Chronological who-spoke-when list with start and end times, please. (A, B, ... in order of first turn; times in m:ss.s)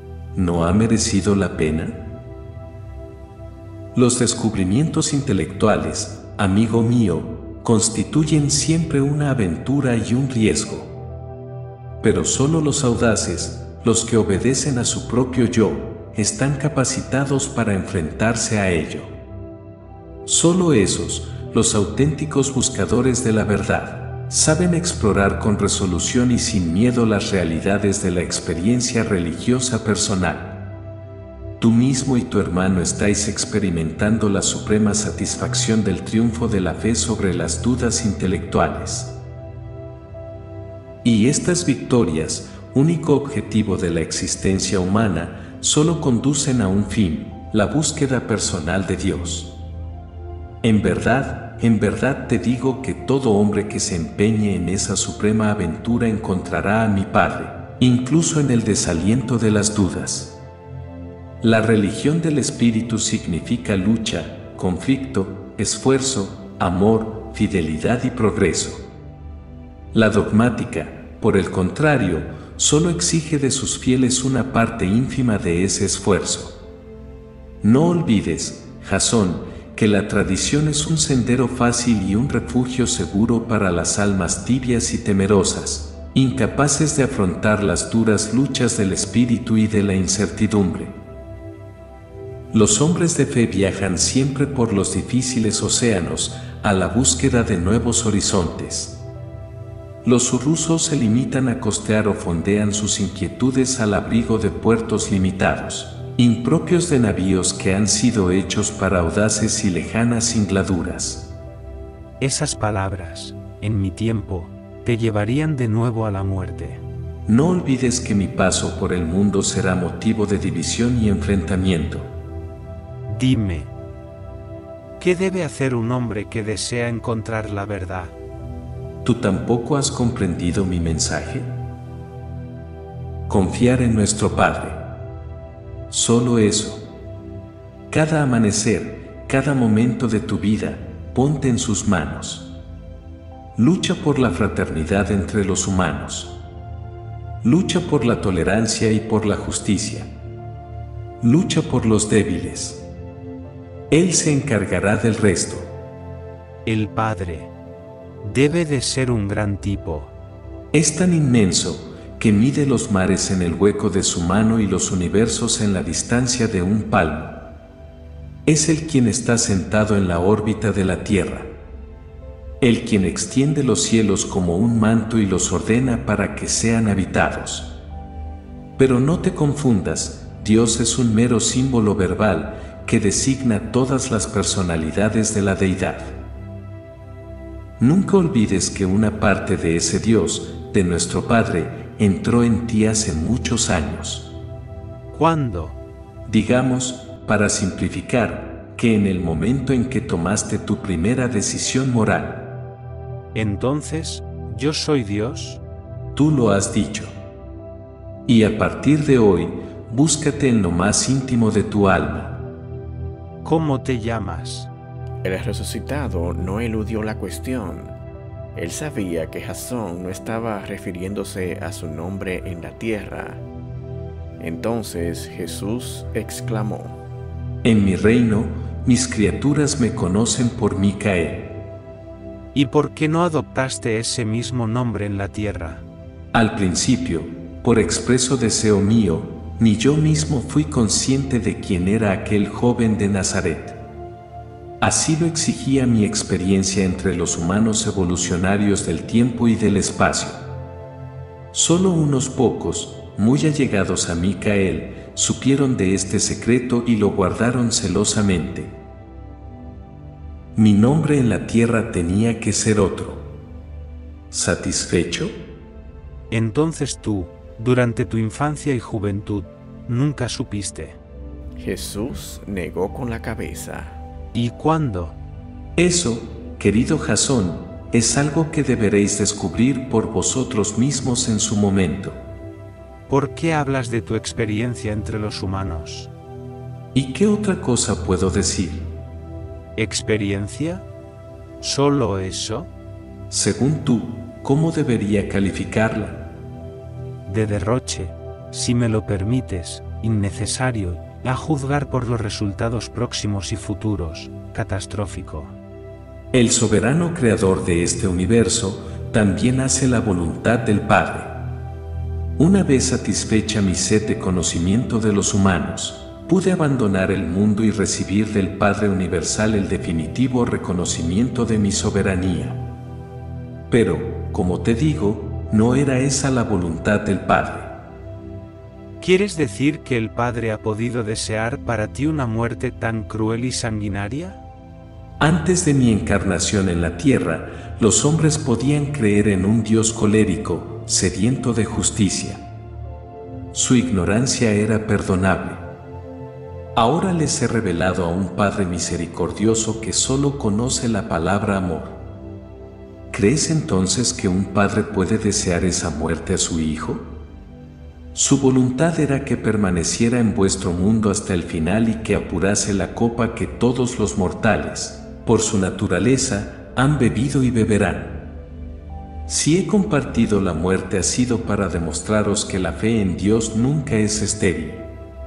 0:00.3-0:02.0 A
0:03.9-0:11.0 A
0:12.0-0:19.1 A
0:20.2-0:30.7 A
0:31.6-0:39.2 A
0:41.0-0:49.6 A
0:50.6-1:00.4 A
1:01.4-1:08.8 A
1:09.9-1:16.6 A
1:17.6-1:31.0 A
1:32.5-1:39.0 A
1:40.0-1:51.3 A
1:52.2-1:56.8 B
1:57.2-2:02.1 A
2:03.1-2:03.7 B
2:05.0-2:08.1 B
2:09.0-2:11.5 A
2:13.3-2:14.9 A
2:15.9-2:16.9 A
2:17.9-2:22.5 A
2:23.6-2:26.4 A
2:27.4-2:30.1 A
2:31.2-2:32.8 A
2:33.9-2:35.7 A
2:36.6-2:37.5 B
2:38.2-2:40.1 B
2:40.7-2:47.4 A
2:48.4-2:51.5 A
2:52.6-2:57.8 A
2:58.8-3:06.2 A
3:07.8-3:14.3 A
3:15.1-3:15.8 B
3:16.2-3:22.5 A
3:23.3-3:25.6 B
3:26.1-3:27.1 A
3:28.2-3:32.4 A
3:33.4-3:34.7 B
3:35.2-3:38.0 C
3:38.5-3:43.4 C
3:44.4-3:47.0 C
3:47.6-3:51.5 A
3:52.5-3:55.8 B
3:56.3-4:03.8 A
4:04.8-4:10.4 A
4:11.5-4:18.7 A
4:20.5-4:23.3 A
4:24.3-4:25.4 A
4:26.3-4:31.0 B
4:31.6-4:34.0 C
4:34.3-4:35.2 B
4:35.8-4:42.2 A
4:43.1-4:46.1 B
4:46.9-4:48.9 A
4:49.8-4:50.8 B
4:51.6-4:52.7 B
4:53.3-4:56.2 A
4:57.2-5:05.6 B
5:06.3-5:11.4 A
5:12.4-5:22.6 A
5:23.7-5:27.8 A
5:29.0-5:34.4 B
5:35.2-5:42.4 A
5:43.5-5:45.6 A
5:46.7-5:52.0 A
5:53.1-5:57.1 A
5:58.1-6:08.3 A
6:09.2-6:14.9 A